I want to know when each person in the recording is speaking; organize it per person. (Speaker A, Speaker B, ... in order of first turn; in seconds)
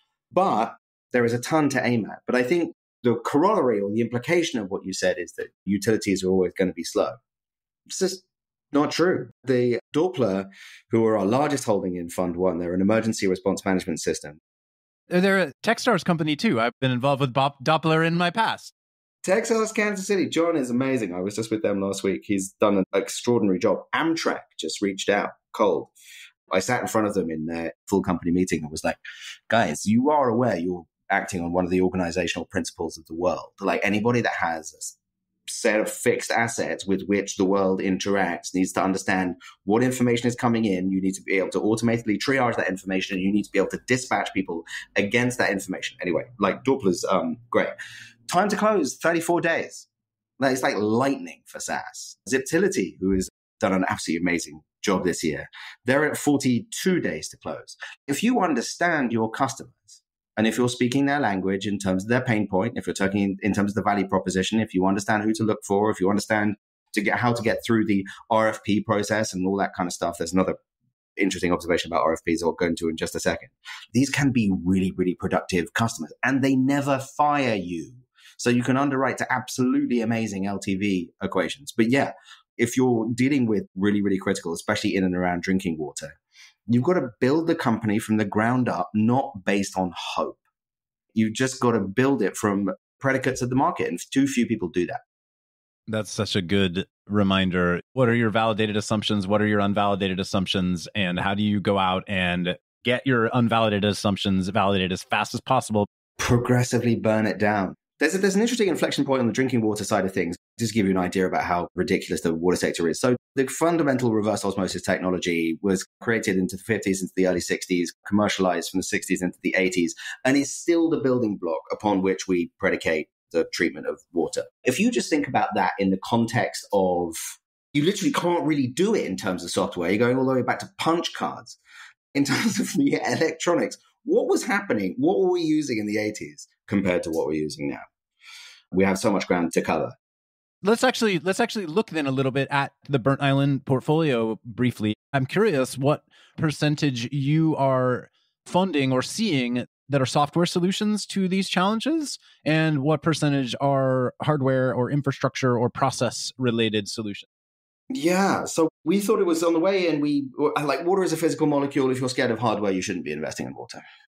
Speaker A: 0.3-7.2, 7.9-14.4, 19.2-25.9, 26.5-34.9, 35.5-47.7, 48.3-49.9, 50.4-70.6, 71.2-86.2, 86.7-90.4, 91.1-95.0, 106.2-131.6, 132.1-137.8, 138.7-139.9, 157.9-163.8
Speaker B: 15.1-18.7, 95.9-105.9, 140.6-157.2